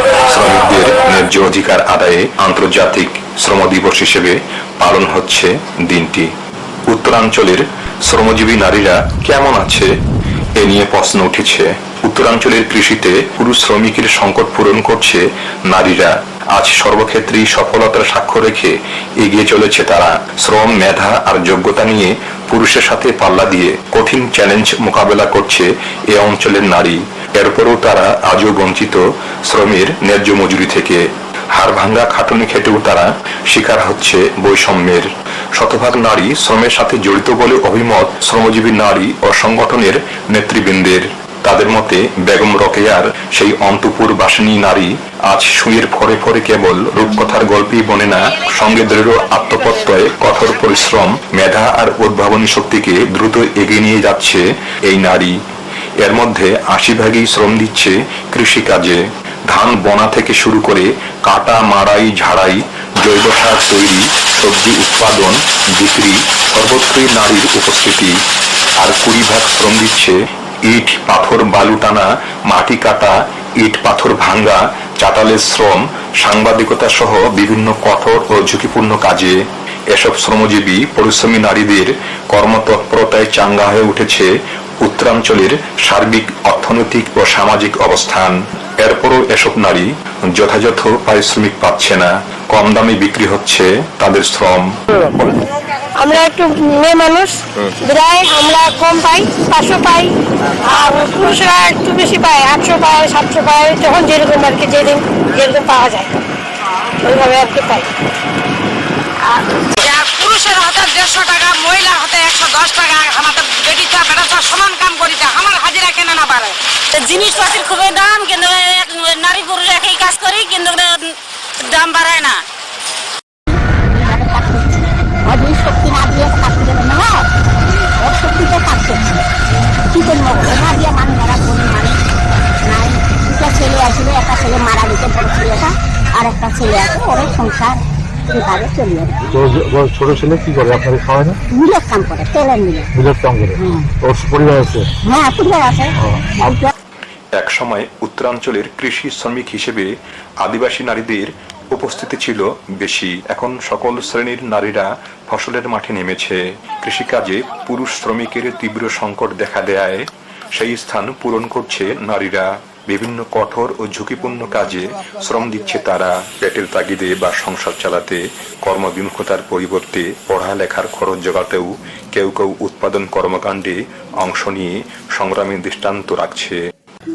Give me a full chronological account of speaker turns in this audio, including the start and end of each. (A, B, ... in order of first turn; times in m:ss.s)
0:00.2-0:06.3 A
0:06.9-0:09.9 A
0:10.6-0:55.4 A
0:56.0-1:08.2 A
1:08.8-1:19.4 A
1:19.9-1:24.3 A
1:24.8-1:34.7 A
1:36.0-1:40.1 B
1:40.7-1:46.1 B
1:47.0-1:47.9 B
1:49.8-2:01.1 C
2:01.6-2:02.4 C
2:03.9-2:07.3 D
2:08.0-2:09.2 D
2:09.9-2:12.0 D
2:12.7-2:19.2 D
2:19.3-2:21.4 E
2:21.5-2:22.9 D
2:22.9-2:24.9 E
2:23.5-2:23.9 D
2:25.0-2:26.7 D
2:27.4-2:29.9 A
2:30.4-2:56.6 A